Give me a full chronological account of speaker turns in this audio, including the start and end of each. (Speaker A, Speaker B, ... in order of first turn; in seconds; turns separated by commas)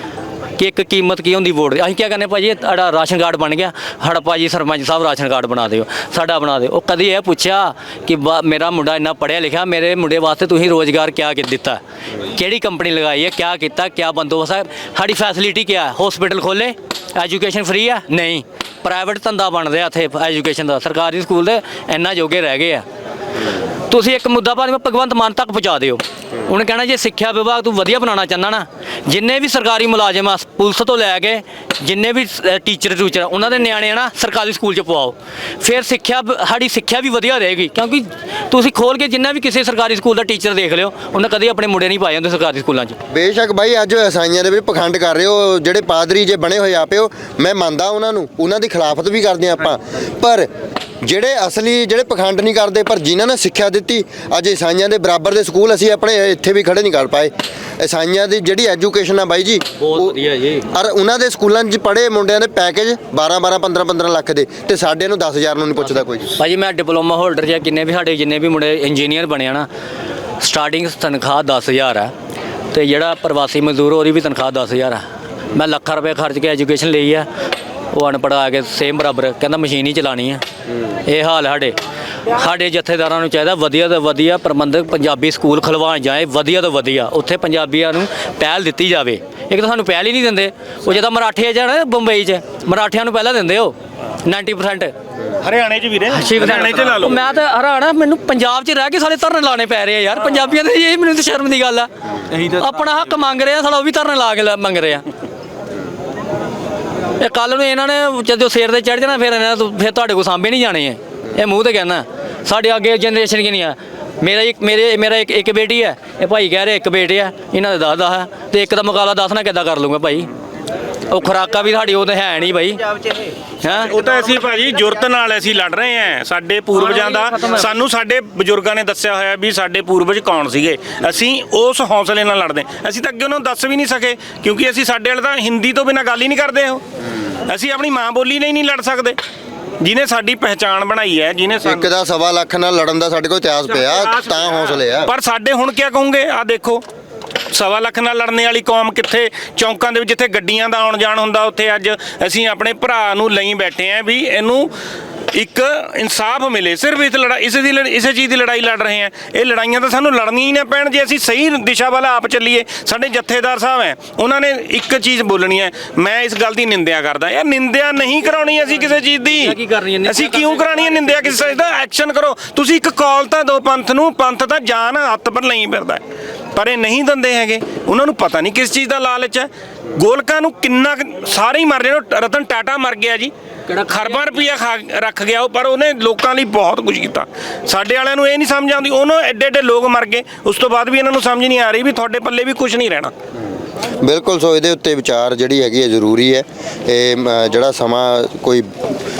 Speaker A: 0.6-22.8, Speaker A: 23.9-43.0, Speaker B: 43.1-50.5, Speaker B: 51.0-60.2, Speaker A: 59.8-60.6, Speaker B: 60.7-66.3, Speaker A: 66.4-69.7, Speaker A: 70.4-72.1, Speaker A: 72.7-77.3, Speaker A: 77.9-80.4, Speaker A: 81.0-81.8, Speaker A: 82.3-94.9, Speaker C: 95.4-97.2, Speaker A: 96.1-105.0, Speaker A: 107.2-120.3, Speaker A: 121.1-122.9, Speaker A: 123.6-123.9, Speaker C: 123.7-136.8, Speaker A: 126.7-127.6, Speaker C: 137.5-139.2, Speaker C: 139.8-141.9, Speaker B: 141.6-145.1, Speaker C: 143.7-146.8, Speaker C: 147.5-154.7, Speaker C: 155.3-176.0, Speaker A: 169.3-171.7, Speaker C: 176.5-183.3, Speaker A: 183.7-184.4, Speaker C: 183.8-193.1, Speaker B: 194.0-198.7